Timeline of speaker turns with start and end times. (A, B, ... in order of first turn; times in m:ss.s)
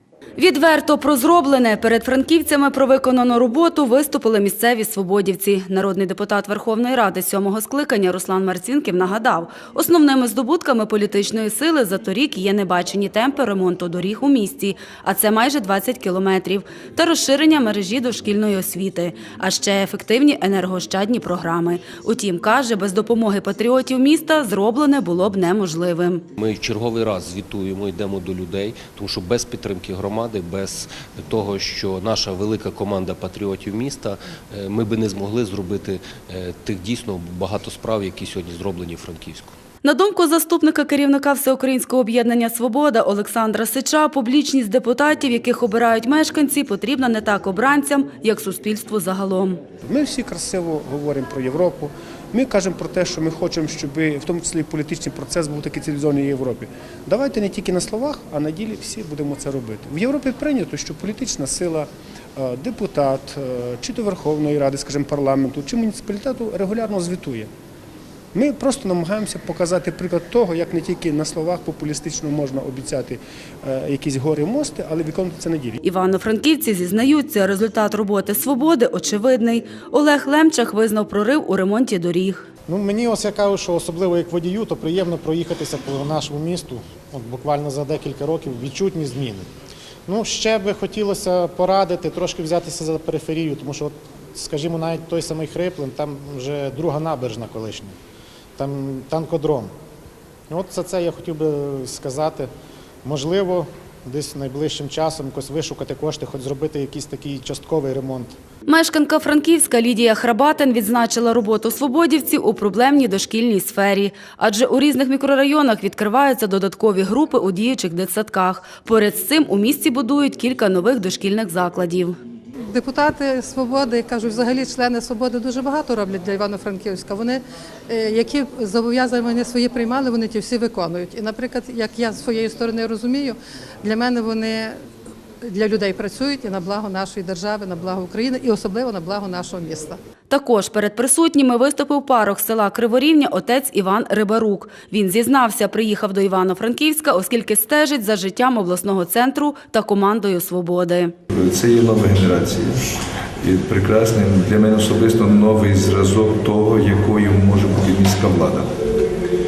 0:00.4-0:26.2 A
0:26.4-0:39.6 B
0:39.8-0:49.6 A
0:49.9-1:07.5 C
1:08.3-1:15.8 C
1:15.8-1:22.5 A
1:22.7-1:29.5 D
1:30.1-1:38.0 D
1:38.6-1:39.7 D
1:40.5-1:42.5 D
1:43.0-1:48.4 D
1:48.7-2:02.2 A
2:02.7-2:14.8 E
2:15.4-2:20.0 E
2:20.3-2:31.1 A
2:31.3-2:32.8 F
2:33.4-2:38.7 F